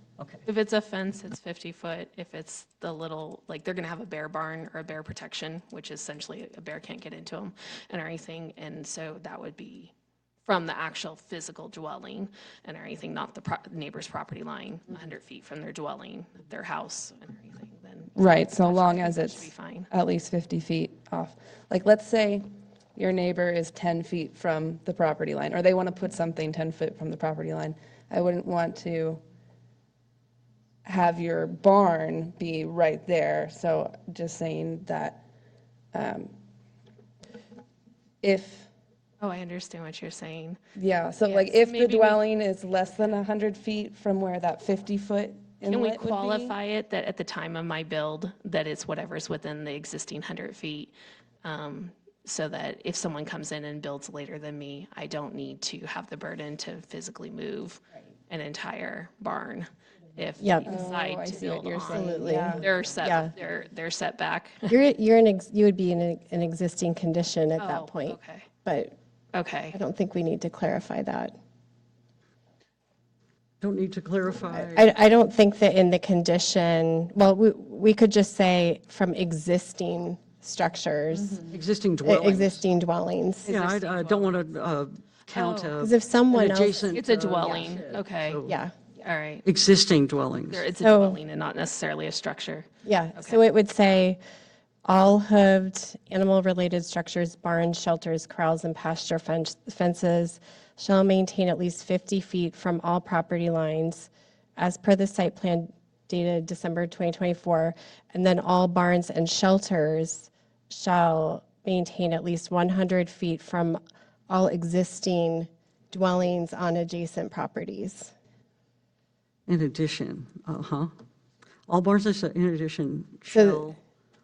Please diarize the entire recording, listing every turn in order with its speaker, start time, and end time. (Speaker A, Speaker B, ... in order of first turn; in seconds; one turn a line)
Speaker A: 0.2-0.4
Speaker B: 0.5-9.9
Speaker B: 10.4-19.9
Speaker C: 18.1-29.2
Speaker C: 30.8-35.2
Speaker C: 35.9-36.3
Speaker C: 38.2-38.7
Speaker B: 39.2-40.6
Speaker C: 40.8-46.5
Speaker B: 41.2-42.3
Speaker B: 45.7-64.8
Speaker D: 60.4-60.8
Speaker C: 60.7-62.5
Speaker D: 61.9-63.3
Speaker D: 64.7-69.0
Speaker B: 67.6-68.5
Speaker B: 69.3-69.8
Speaker D: 69.7-71.4
Speaker A: 73.6-74.9
Speaker D: 74.5-83.5
Speaker A: 81.5-82.6
Speaker B: 83.4-84.4
Speaker A: 83.5-88.6
Speaker B: 85.3-85.8
Speaker D: 85.8-86.9
Speaker B: 86.9-88.4
Speaker D: 88.4-88.8
Speaker B: 89.0-89.4
Speaker A: 89.4-90.6
Speaker B: 90.5-93.4
Speaker D: 90.8-91.2
Speaker D: 92.8-94.2
Speaker D: 94.8-118.1
Speaker A: 119.5-120.9
Speaker A: 121.7-123.8
Speaker D: 123.3-123.7